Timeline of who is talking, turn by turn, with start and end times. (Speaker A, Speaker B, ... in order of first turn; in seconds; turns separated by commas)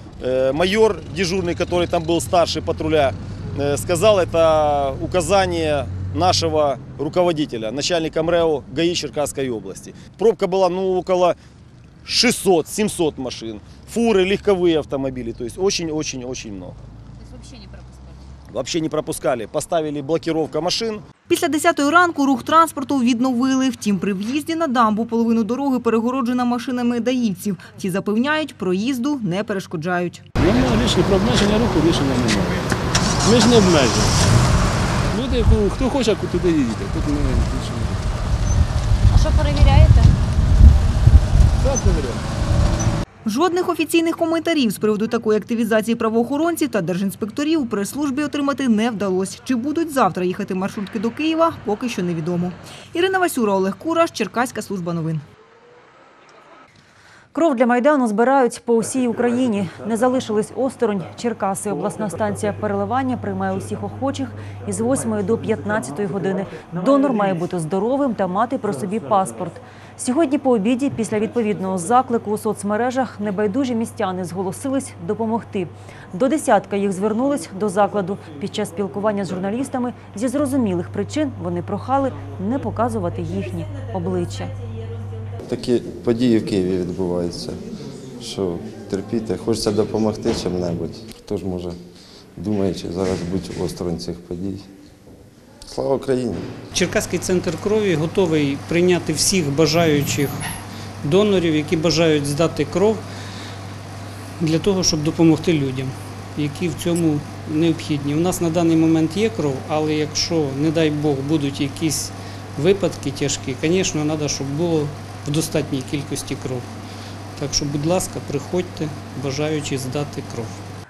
Speaker A: 0.2-11.4, Speaker A: 12.1-16.8, Speaker A: 18.5-21.0, Speaker B: 21.3-30.2, Speaker C: 30.4-32.6, Speaker C: 33.2-34.2, Speaker C: 35.1-38.0, Speaker C: 41.6-42.2, Speaker B: 43.3-55.2, Speaker D: 57.3-84.5, Speaker E: 85.4-87.6, Speaker E: 88.2-91.8, Speaker E: 92.4-94.7, Speaker E: 95.7-96.5, Speaker F: 96.7-100.4, Speaker F: 101.0-103.0, Speaker F: 104.4-116.7, Speaker F: 117.4-120.6